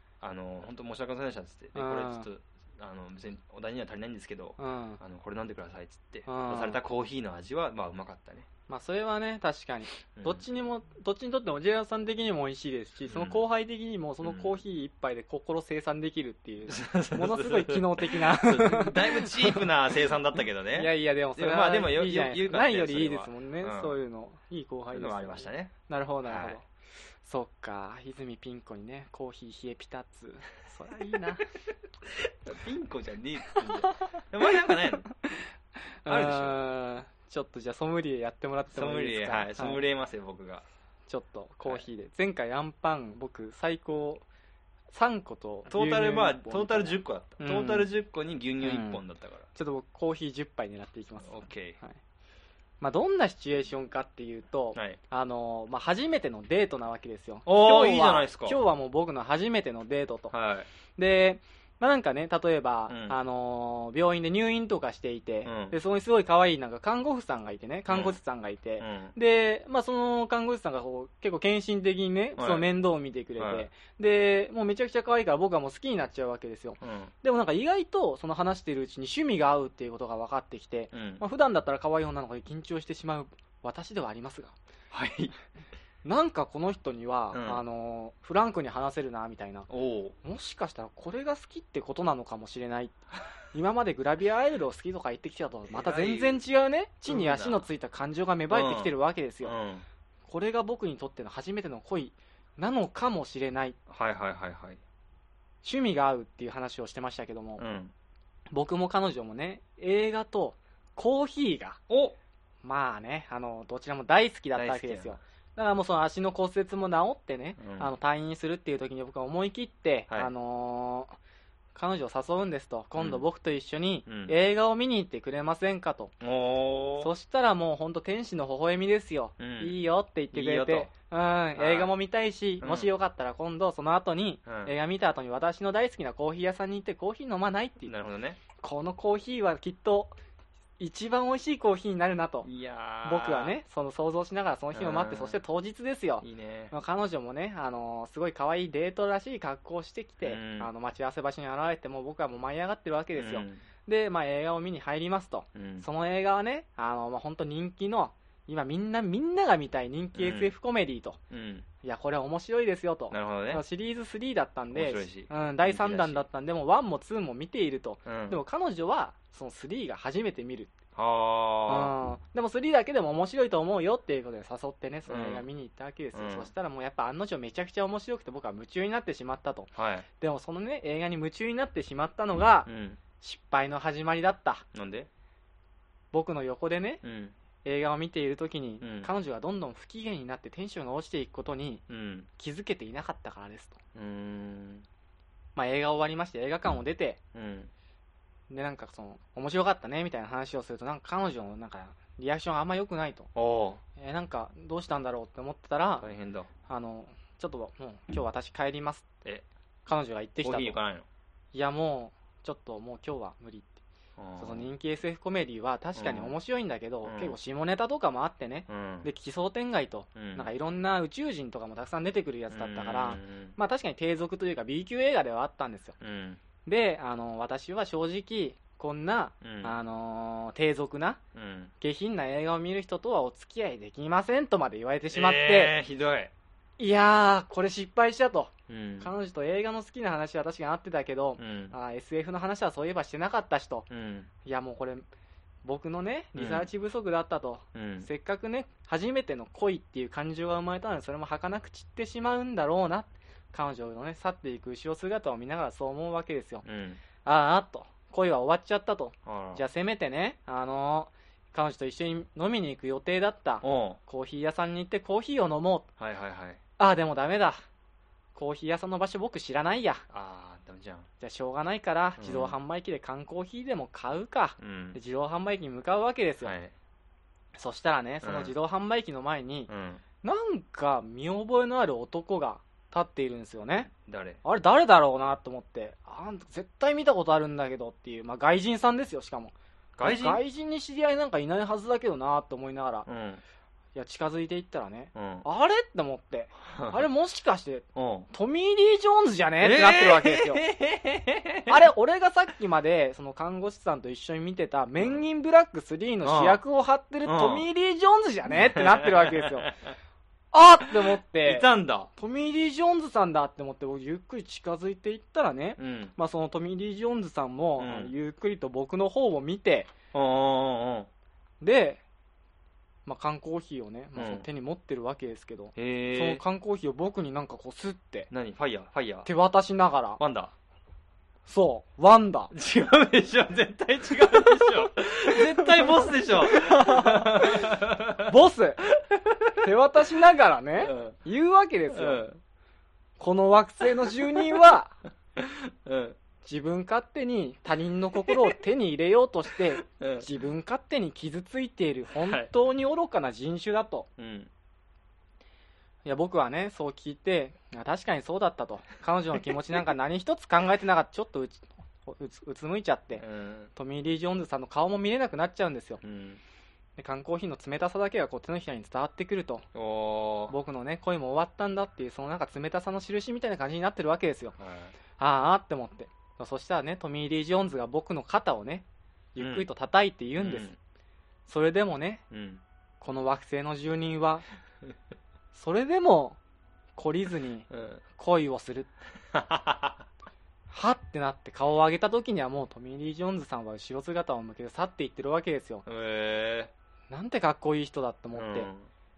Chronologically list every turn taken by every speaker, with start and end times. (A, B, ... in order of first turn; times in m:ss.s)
0:00.2-0:08.5 A
0:01.8-0:02.3 B
0:04.6-0:05.0 B
0:06.3-0:06.8 B
0:08.7-0:19.7 B
0:10.2-0:10.4 A
0:13.1-0:13.4 A
0:14.2-0:14.6 A
0:16.7-0:24.0 A
0:20.8-0:26.6 B
0:24.9-0:25.7 A
0:26.2-0:26.6 A
0:27.2-0:31.4 B
0:32.1-0:35.1 A
0:33.5-0:35.4 B
0:36.0-0:39.8 B
0:36.1-0:36.6 A
0:38.7-0:40.6 A
0:41.1-0:44.3 B
0:44.9-0:47.9 B
0:45.7-0:49.5 A
0:48.6-0:49.0 B
0:49.6-0:52.0 B
0:51.2-0:51.8 A
0:52.8-1:00.3 B
0:57.5-0:58.6 A
1:00.3-1:00.7 A
1:01.0-1:24.6 B
1:02.9-1:03.2 A
1:05.4-1:05.8 A
1:07.9-1:08.2 A
1:08.8-1:09.1 A
1:12.4-1:12.7 A
1:13.4-1:13.7 A
1:16.8-1:17.1 A
1:20.9-1:21.2 A
1:24.9-1:25.3 A
1:26.0-1:29.7 B
1:27.3-1:27.6 A
1:29.7-1:30.2 A
1:30.2-1:33.0 B
1:33.5-1:39.6 B
1:35.7-1:36.4 A
1:37.1-1:37.6 A
1:38.5-1:39.8 A
1:40.3-1:43.8 B
1:43.9-1:44.8 A
1:45.6-1:47.6 B
1:47.6-1:47.9 A
1:48.5-1:51.8 B
1:51.9-1:52.2 A
1:52.6-2:01.2 B
1:54.5-1:55.2 A
1:57.6-1:57.9 A
2:01.8-2:06.1 B
2:03.0-2:03.2 A
2:04.1-2:04.3 A
2:06.2-2:07.1 A
2:07.0-2:17.9 B
2:09.4-2:09.8 A
2:10.3-2:10.9 A
2:11.6-2:11.9 A
2:12.6-2:12.9 A
2:14.5-2:14.8 A
2:17.9-2:18.4 A
2:18.6-2:20.2 B
2:20.8-2:22.5 B
2:22.4-2:23.6 A
2:23.0-2:41.2 B
2:24.7-2:25.4 A
2:26.2-2:26.7 A
2:30.2-2:30.7 A
2:33.2-2:33.6 A
2:35.6-2:35.9 A
2:40.2-2:40.5 A
2:41.3-2:41.7 A
2:41.8-2:50.8 B
2:43.1-2:43.6 A
2:44.7-2:46.2 A
2:48.1-2:48.4 A
2:51.0-2:51.9 A
2:51.7-3:02.7 B
2:55.1-2:55.4 A
2:56.1-2:56.5 A
2:59.8-3:00.1 A
3:02.7-3:03.0 A
3:03.2-3:04.7 B
3:04.7-3:05.1 A
3:06.1-3:07.0 B
3:07.0-3:07.3 A
3:07.6-3:11.8 B
3:08.8-3:09.1 A
3:11.9-3:12.3 A
3:12.4-3:13.8 B
3:14.0-3:14.9 A
3:15.6-3:17.2 B
3:17.3-3:17.7 A
3:18.5-3:23.3 B
3:23.4-3:23.8 A
3:24.0-3:26.1 B
3:26.0-3:26.5 A
3:26.7-3:29.1 B
3:29.9-3:30.8 B
3:30.4-3:31.0 A
3:31.5-3:33.8 B
3:34.2-3:34.7 A
3:34.4-3:46.0 B
3:36.0-3:36.4 A
3:37.0-3:37.4 A
3:38.7-3:39.1 A
3:40.2-3:40.5 A
3:42.5-3:43.6 A
3:46.0-3:46.4 A
3:46.7-3:51.2 B
3:49.4-3:49.8 A
3:51.4-3:51.7 A
3:51.8-3:55.8 B
3:55.1-3:56.3 A
3:56.8-4:03.9 B
3:58.7-3:59.1 A
4:01.4-4:01.8 A
4:03.9-4:04.3 A
4:04.4-4:05.1 B
4:05.6-4:16.6 B
4:06.4-4:06.7 A
4:07.7-4:08.1 A
4:16.6-4:17.0 A
4:17.2-4:25.9 B
4:19.3-4:19.6 A
4:23.6-4:24.0 A
4:26.0-4:26.6 A
4:26.8-4:27.6 B
4:28.4-4:30.0 B
4:30.1-4:31.1 A
4:31.2-4:36.6 B
4:32.2-4:32.6 A
4:34.6-4:35.0 A
4:36.4-4:36.7 A
4:37.6-4:39.7 B
4:38.2-4:38.5 A
4:39.7-4:40.0 A
4:40.2-4:43.9 B
4:43.9-4:44.4 A
4:44.4-4:53.1 B
4:50.0-4:50.4 A
4:53.1-4:53.4 A
4:54.0-5:00.6 B
4:55.2-4:55.4 A
4:56.7-4:57.1 A
4:58.0-4:58.3 A
4:59.6-5:01.8 A
5:01.7-5:09.7 B
5:06.2-5:06.6 A
5:07.2-5:07.7 A
5:08.5-5:09.9 A
5:10.5-5:19.9 B
5:11.0-5:12.1 A
5:15.8-5:16.1 A
5:17.8-5:18.1 A
5:20.1-5:21.1 A
5:21.6-5:22.0 B
5:23.1-5:28.3 B
5:24.2-5:24.5 A
5:25.8-5:26.4 A
5:28.3-5:29.3 A
5:29.2-5:30.2 B
5:30.2-5:30.5 A
5:31.5-5:32.5 B
5:32.5-5:38.3 A
5:35.3-5:38.9 B
5:38.9-5:39.6 A
5:39.6-5:42.3 B
5:40.8-5:41.2 A
5:41.9-5:42.4 A
5:43.2-5:45.0 B
5:43.8-5:44.6 A
5:45.4-5:46.2 A
5:46.4-5:54.1 B
5:48.3-5:48.5 A
5:49.8-5:50.3 A
5:52.2-5:52.5 A
5:54.2-5:54.5 A
5:56.0-6:03.2 B
6:03.2-6:03.7 A
6:03.8-6:06.0 B
6:06.0-6:06.4 A
6:07.0-6:09.7 B
6:09.7-6:10.6 A
6:10.5-6:14.6 B
6:14.6-6:14.9 A
6:15.2-6:20.7 B
6:19.4-6:19.7 A
6:20.4-6:20.8 A
6:21.5-6:22.2 B
6:22.3-6:22.6 A
6:23.0-6:24.5 B
6:25.5-6:26.4 B
6:27.0-6:28.9 B
6:27.7-6:28.0 A
6:29.3-6:30.1 A
6:30.7-6:35.8 B
6:35.9-6:36.7 A
6:37.1-6:38.7 B
6:38.3-6:38.9 A